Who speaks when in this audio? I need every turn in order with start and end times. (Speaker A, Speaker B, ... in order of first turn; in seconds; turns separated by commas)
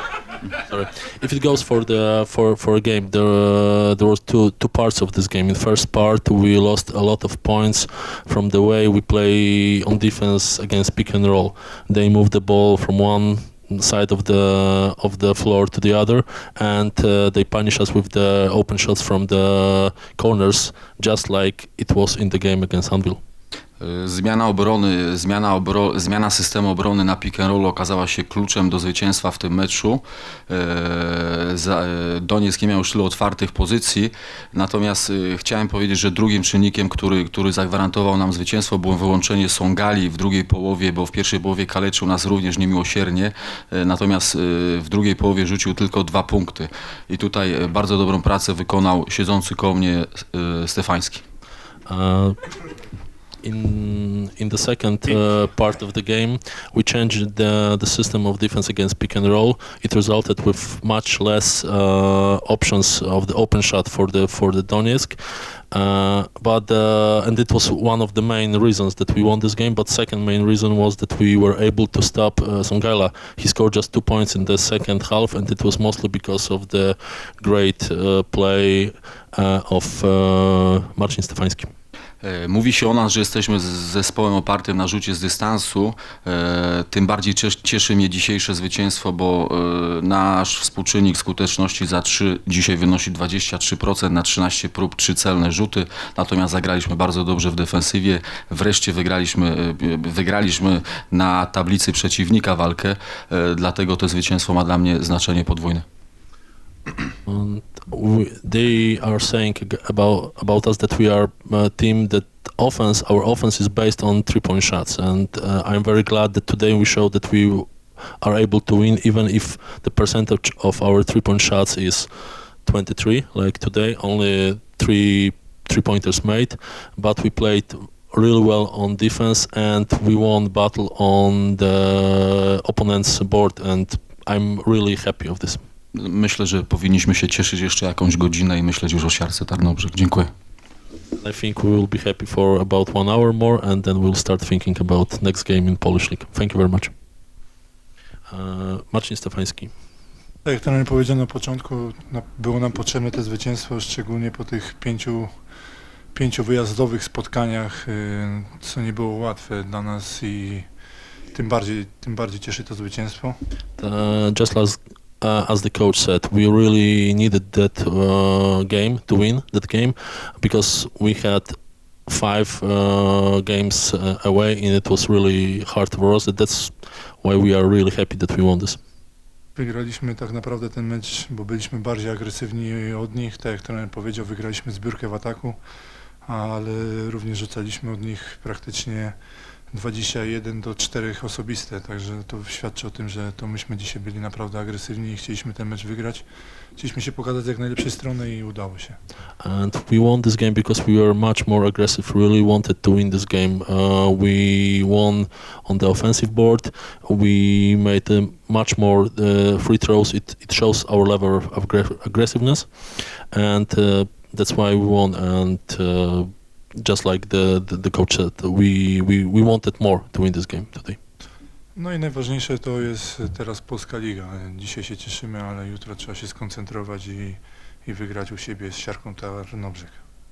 Speaker A: 0.6-23.2, Speaker B: 23.8-51.2, Speaker A: 51.9-52.4, Speaker A: 53.4-65.2, Speaker A: 65.7-81.7, Speaker B: 82.2-105.8, Speaker A: 107.2-117.7, Speaker A: 118.2-122.1, Speaker A: 122.6-135.6, Speaker B: 135.9-140.3, Speaker A: 141.2-146.9, Speaker A: 148.3-149.7, Speaker C: 150.4-155.2, Speaker C: 156.1-160.6, Speaker C: 161.3-163.3, Speaker A: 163.8-171.5, Speaker A: 172.1-178.8, Speaker C: 179.6-185.6, Speaker C: 186.3-189.1, Speaker C: 189.7-196.2, Speaker C: 196.8-199.0, Speaker A: 199.4-221.0, Speaker C: 221.8-229.9